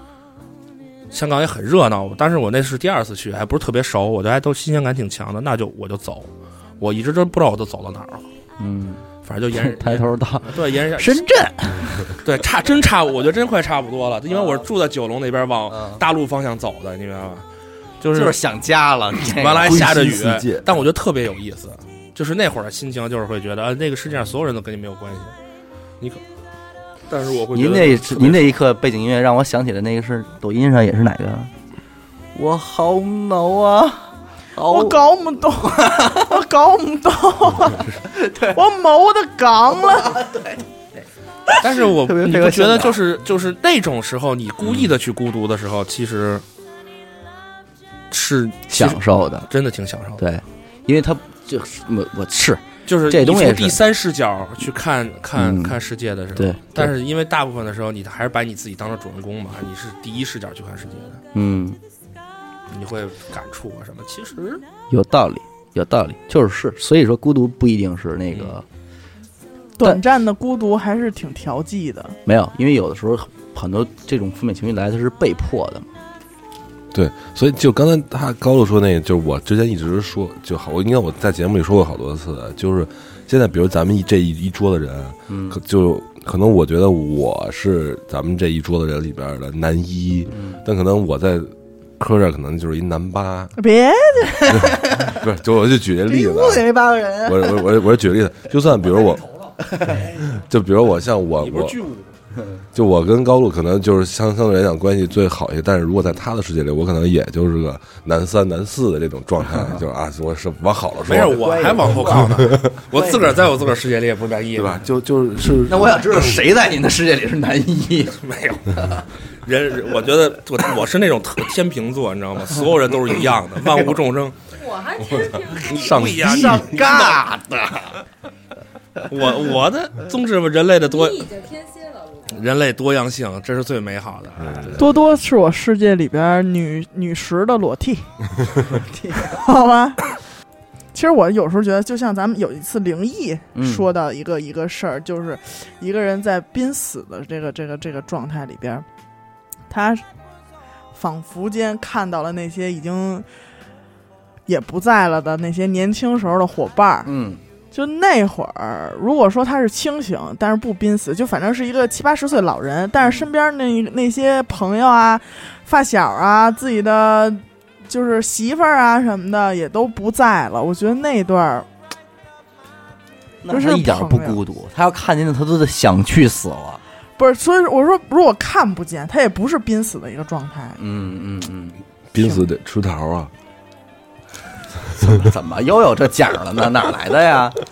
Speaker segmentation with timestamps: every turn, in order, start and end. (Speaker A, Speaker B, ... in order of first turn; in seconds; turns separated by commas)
Speaker A: 1.1-8.2, Speaker B: 8.6-12.2, Speaker A: 9.2-11.2, Speaker A: 12.2-17.4, Speaker B: 14.3-14.7, Speaker B: 15.7-16.0, Speaker A: 18.0-18.4, Speaker B: 18.1-20.4, Speaker A: 19.3-25.3, Speaker C: 19.8-20.7, Speaker A: 27.1-28.5, Speaker B: 27.5-31.5, Speaker B: 32.3-36.4, Speaker D: 34.6-37.9, Speaker B: 38.1-38.6, Speaker D: 38.5-40.2, Speaker B: 39.9-43.0, Speaker A: 41.6-46.4, Speaker B: 44.6-44.9, Speaker A: 48.1-50.2, Speaker B: 48.7-49.5, Speaker B: 50.2-53.8, Speaker A: 52.9-61.2, Speaker B: 55.3-55.8, Speaker B: 56.3-56.9, Speaker B: 61.3-61.8, Speaker A: 62.7-64.6, Speaker B: 64.9-68.6, Speaker D: 69.8-72.2, Speaker B: 72.2-75.9, Speaker C: 76.9-93.5, Speaker B: 85.3-85.6, Speaker B: 90.3-90.6, Speaker D: 93.6-95.1, Speaker C: 94.5-96.7, Speaker D: 96.7-97.2, Speaker C: 97.2-99.3, Speaker C: 100.3-101.7, Speaker A: 101.4-102.1, Speaker C: 102.7-111.5, Speaker A: 111.0-114.8, Speaker B: 111.1-113.4, Speaker C: 112.2-112.7, Speaker C: 114.5-116.3, Speaker B: 115.4-118.2, Speaker A: 118.2-118.8, Speaker B: 118.7-119.0, Speaker A: 119.4-124.4, Speaker C: 125.1-126.8, Speaker A: 125.4-127.2, Speaker B: 125.9-127.9, Speaker A: 129.1-131.5, Speaker A: 132.2-134.7, Speaker C: 134.4-134.9, Speaker D: 134.8-140.1, Speaker B: 138.7-139.3, Speaker D: 140.9-148.8, Speaker B: 143.5-143.9, Speaker D: 149.7-150.0, Speaker D: 150.9-153.3, Speaker D: 154.5-157.1, Speaker B: 157.0-157.4, Speaker D: 157.7-171.7, Speaker B: 173.4-176.8, Speaker D: 173.5-174.4, Speaker D: 177.2-180.8, Speaker B: 180.8-181.8, Speaker C: 182.1-183.3, Speaker D: 182.2-182.4, Speaker B: 184.8-187.6